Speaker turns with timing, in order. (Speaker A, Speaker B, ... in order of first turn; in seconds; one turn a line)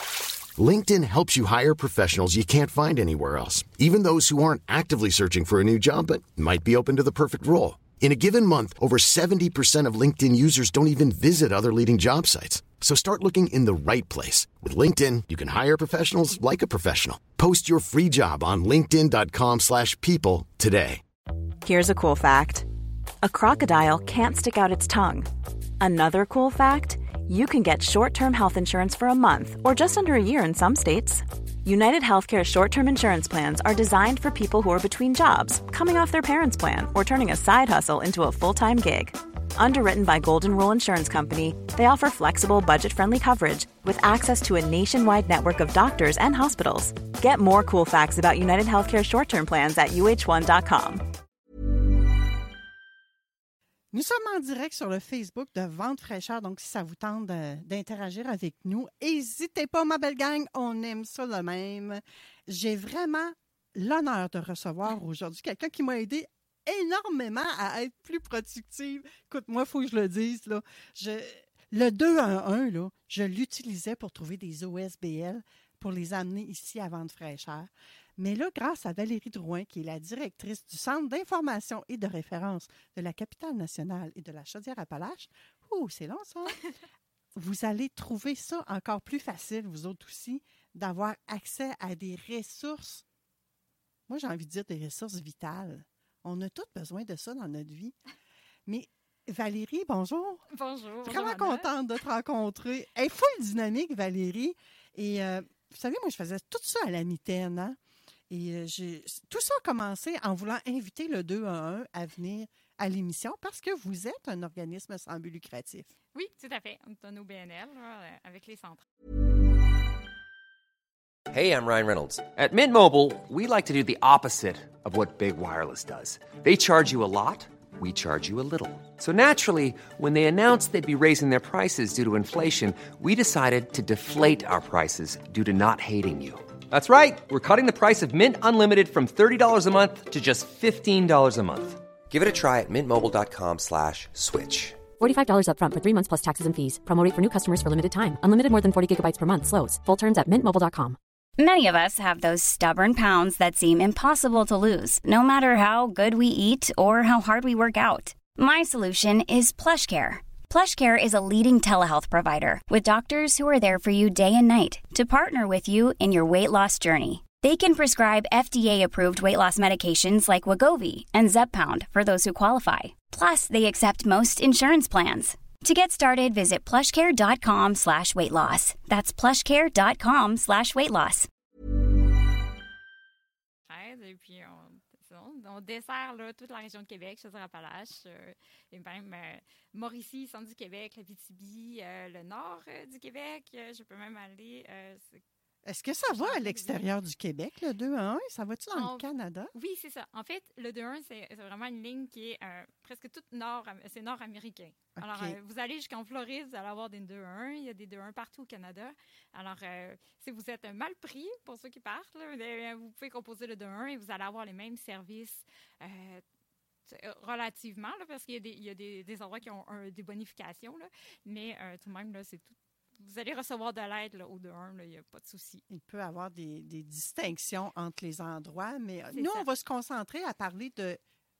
Speaker A: 0.6-21.0
Speaker B: 21.6-22.7
Speaker B: 23.2-25.3
Speaker B: 25.8-51.0
Speaker C: 53.9-86.6
Speaker C: 87.3-93.0
Speaker C: 94.1-98.0
Speaker C: 98.7-100.4
Speaker D: 100.5-101.7
Speaker C: 101.0-107.8
Speaker C: 108.3-115.9
Speaker D: 116.1-118.8
Speaker E: 121.3-144.8
Speaker F: 145.0-151.0
Speaker G: 151.4-181.3
Speaker D: 183.7-195.2
Speaker C: 195.7-199.5
Speaker D: 196.1-196.9
Speaker D: 198.7-216.2
Speaker C: 205.0-205.4
Speaker D: 216.9-225.6
Speaker C: 225.7-231.0
Speaker D: 229.1-229.5